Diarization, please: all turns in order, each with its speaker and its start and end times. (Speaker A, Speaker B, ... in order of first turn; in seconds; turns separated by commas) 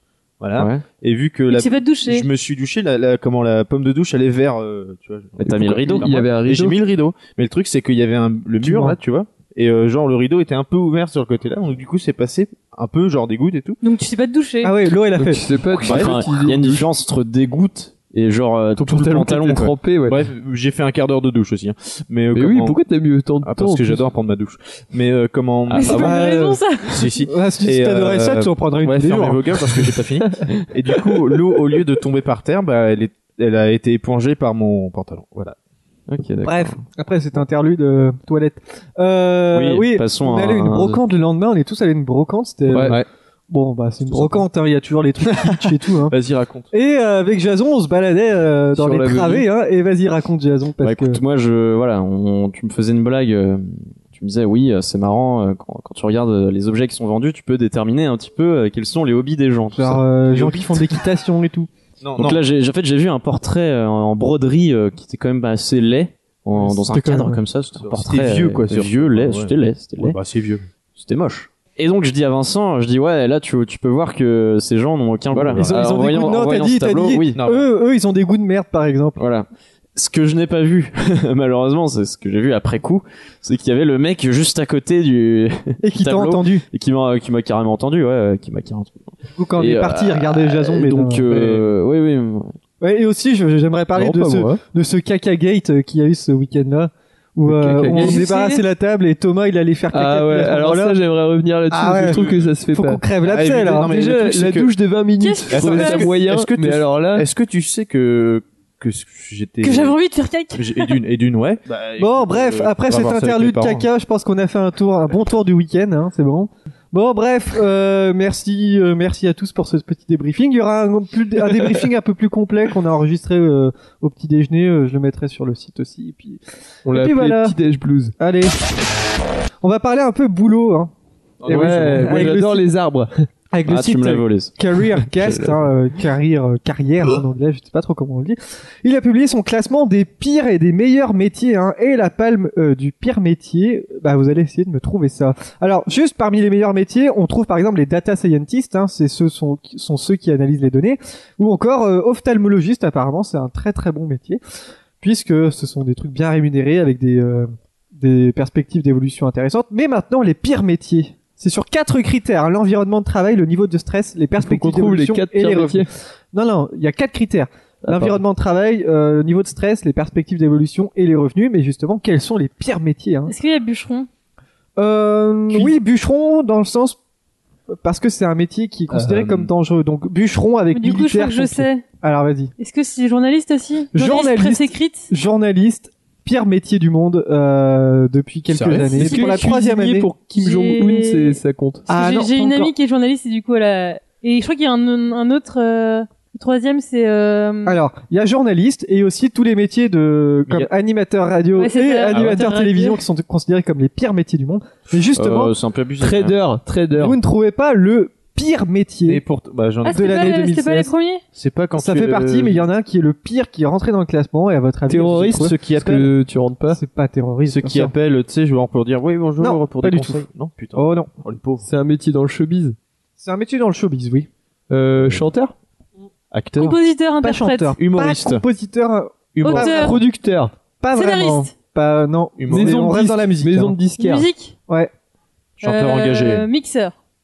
Speaker A: 0.4-13.8, Speaker B: 0.6-0.9, Speaker C: 1.5-2.3, Speaker B: 5.4-6.2, Speaker D: 6.0-6.8, Speaker D: 8.6-8.9, Speaker E: 8.6-9.0, Speaker C: 13.8-14.7, Speaker E: 14.6-15.5, Speaker D: 15.1-16.9, Speaker B: 15.8-19.8, Speaker A: 15.8-16.1, Speaker D: 18.8-20.2, Speaker A: 20.0-22.8, Speaker D: 22.3-24.1, Speaker A: 23.4-35.5, Speaker C: 25.7-27.1, Speaker E: 25.8-26.6, Speaker E: 27.2-29.8, Speaker B: 36.1-36.8, Speaker E: 36.4-46.1, Speaker B: 39.5-41.0, Speaker D: 42.7-43.0, Speaker A: 45.2-46.7, Speaker E: 46.7-51.2, Speaker D: 48.7-49.5, Speaker B: 50.8-60.0, Speaker E: 59.7-61.7, Speaker A: 60.3-60.9, Speaker A: 62.0-62.4, Speaker B: 62.2-70.2, Speaker E: 66.5-67.4, Speaker A: 67.8-70.7, Speaker B: 71.0-77.4, Speaker A: 75.3-76.1, Speaker E: 75.5-79.2, Speaker A: 77.3-77.6, Speaker B: 79.2-92.5, Speaker E: 85.8-86.6, Speaker E: 89.4-91.2, Speaker D: 91.3-91.7, Speaker E: 92.8-101.0, Speaker D: 93.9-94.6, Speaker D: 97.4-98.2, Speaker C: 97.9-98.6, Speaker D: 99.9-103.0, Speaker E: 101.7-103.9, Speaker A: 101.8-102.5, Speaker A: 103.2-104.7, Speaker D: 103.7-107.3, Speaker C: 105.2-106.1, Speaker A: 105.5-110.0, Speaker C: 109.6-111.0, Speaker A: 110.5-113.8, Speaker E: 112.0-127.5, Speaker D: 126.8-128.1, Speaker E: 128.2-128.5, Speaker E: 129.6-130.9, Speaker A: 131.4-132.3, Speaker E: 131.4-132.7, Speaker D: 131.5-133.2, Speaker E: 133.5-154.4, Speaker B: 133.7-134.5, Speaker D: 135.2-135.5, Speaker E: 155.0-173.3, Speaker D: 164.4-165.9, Speaker D: 167.8-168.2, Speaker C: 173.3-174.1, Speaker E: 174.8-177.0, Speaker E: 177.7-182.5, Speaker A: 178.9-179.5, Speaker C: 180.7-181.8, Speaker C: 182.6-185.1, Speaker E: 183.9-190.1, Speaker A: 188.5-189.2, Speaker D: 188.9-191.8, Speaker C: 190.3-191.4, Speaker E: 191.9-192.7, Speaker C: 191.9-197.8, Speaker E: 197.6-205.5, Speaker C: 201.6-203.0, Speaker B: 205.1-206.4, Speaker D: 206.0-207.2, Speaker E: 206.9-209.2, Speaker A: 209.1-210.3, Speaker E: 209.8-210.9, Speaker C: 209.8-211.2, Speaker A: 211.3-212.7, Speaker E: 211.8-215.6, Speaker D: 214.9-216.8, Speaker A: 215.3-216.1, Speaker E: 216.7-217.9, Speaker A: 217.4-221.7, Speaker E: 219.4-221.1, Speaker D: 221.6-222.8, Speaker E: 223.2-224.3, Speaker D: 224.7-225.5, Speaker A: 225.0-225.2, Speaker A: 226.3-226.8, Speaker C: 226.6-227.7, Speaker E: 227.2-230.0, Speaker A: 227.8-228.4, Speaker A: 229.3-229.9, Speaker C: 229.4-230.0, Speaker D: 229.7-230.5, Speaker E: 230.8-233.8, Speaker C: 230.9-231.5, Speaker A: 232.4-233.0, Speaker D: 232.5-234.3, Speaker C: 234.0-234.5, Speaker A: 235.6-236.4, Speaker C: 235.6-236.9